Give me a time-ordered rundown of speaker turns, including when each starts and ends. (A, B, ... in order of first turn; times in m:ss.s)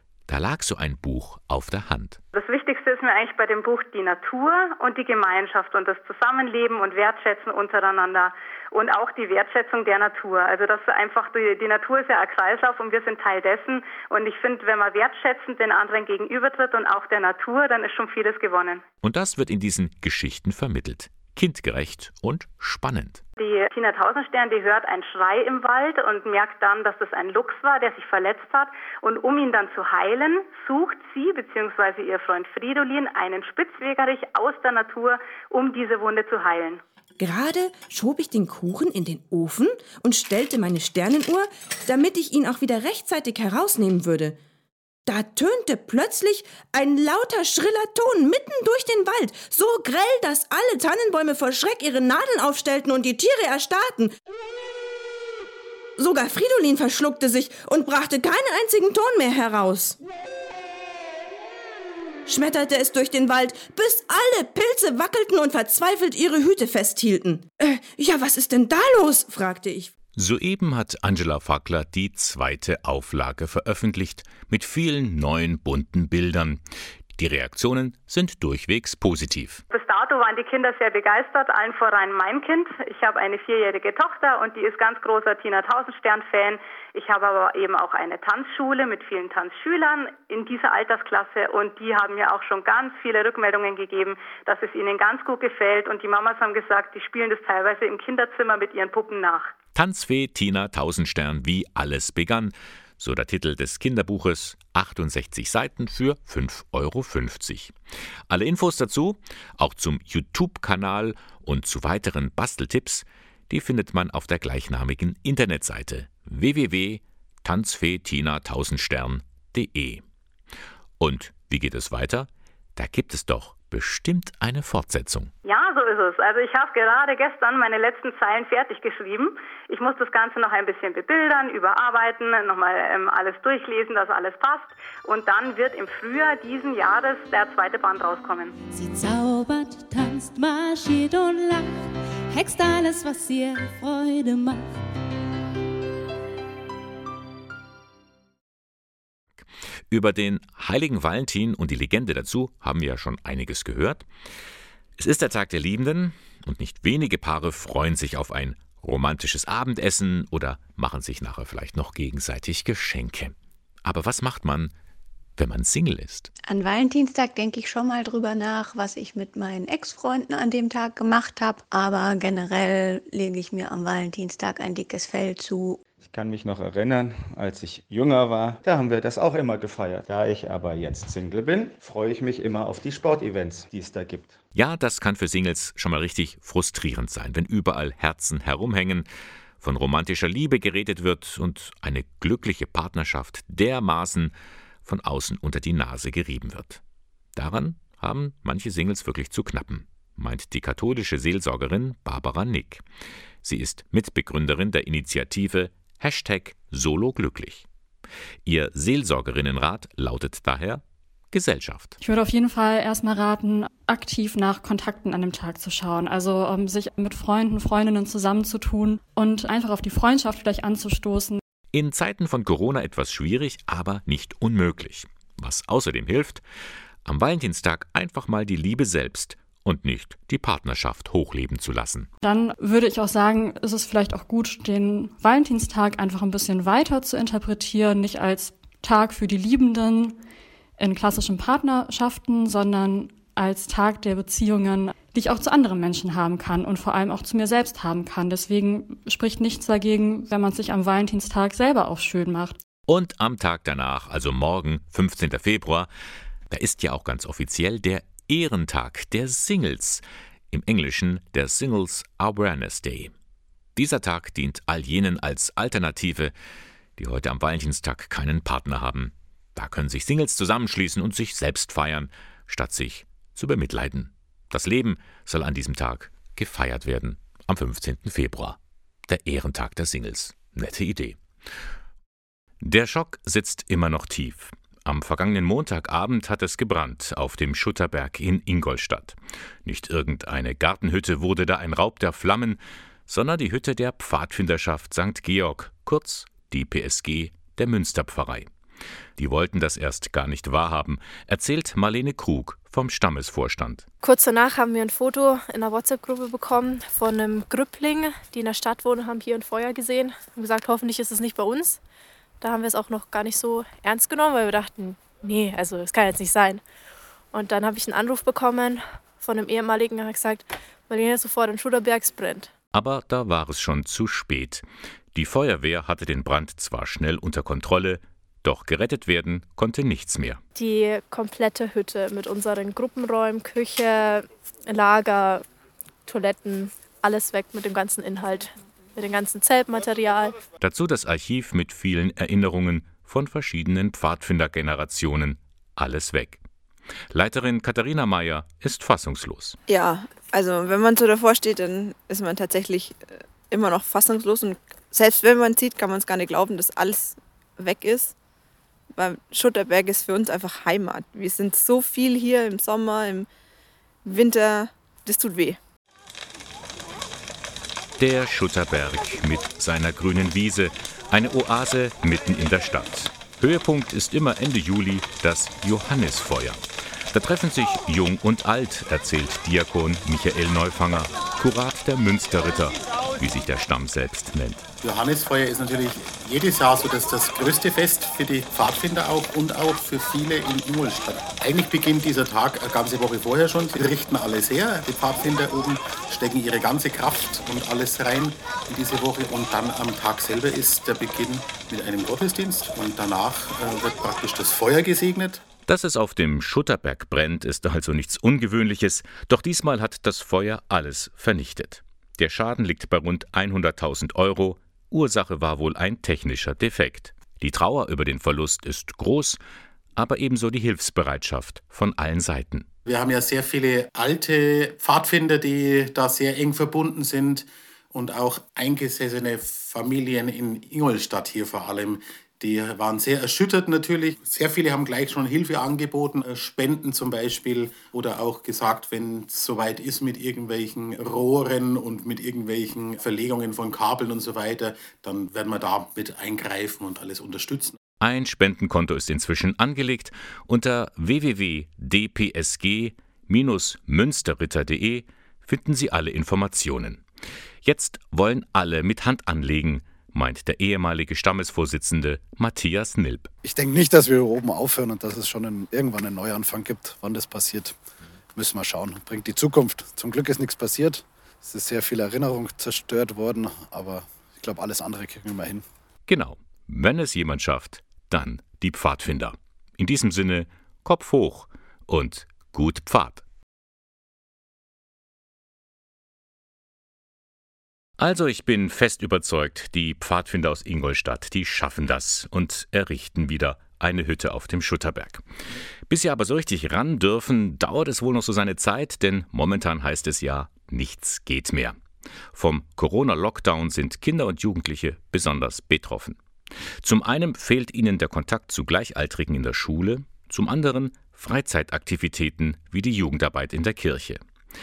0:00.3-0:02.2 A
0:02.3-0:18.8 B
0:19.0-0:23.2 A
0:23.4-0:36.8 B
0:37.2-0:44.4 C
0:45.1-0:54.1 C
0:56.0-1:00.0 C
1:02.2-1:09.9 C
1:10.2-1:16.6 A
1:17.2-1:19.6 A
1:19.7-1:39.5 B
1:39.7-1:47.7 A
1:48.3-2:00.0 A
2:01.0-2:05.3 A
2:05.4-2:18.5 B
2:18.7-2:24.8 D
2:29.9-2:34.1 A
2:35.0-2:44.7 A
2:45.4-2:46.3 A
2:46.4-2:55.8 E
2:56.0-3:04.4 F
3:04.5-3:09.1 A
3:09.6-3:14.3 A
3:14.8-3:16.8 A
3:17.3-3:22.8 A
3:23.4-3:27.6 A
3:28.4-3:32.0 A
3:32.0-3:41.4 G
3:41.7-3:46.4 A
3:47.0-3:52.1 A
3:52.2-4:00.2 G
4:00.8-4:12.6 G
4:12.9-4:15.9 A
4:16.5-4:23.1 A
4:23.8-4:26.3 A
4:27.0-4:41.2 A
4:42.6-4:58.5 A
4:59.2-5:03.8 A
5:04.0-5:11.8 H
5:12.4-5:16.6 H
5:17.3-5:22.5 H
5:22.7-5:30.4 A
5:30.6-5:35.4 H
5:36.0-5:40.4 H
5:40.6-5:46.4 A
5:47.1-5:49.6 A
5:49.7-5:58.1 I
5:58.9-6:03.3 I
6:04.0-6:05.6 I
6:08.0-6:24.6 A
6:24.8-6:45.4 J
6:45.7-6:59.4 A
7:00.0-7:02.7 A
7:02.8-7:27.8 J
7:28.0-7:37.0 A
7:37.6-7:43.3 A
7:43.4-7:47.8 K
7:48.4-7:55.6 K
7:56.1-8:03.2 A
8:08.0-8:15.2 A
8:15.9-8:21.8 A
8:22.3-8:26.2 A
8:26.8-8:34.2 A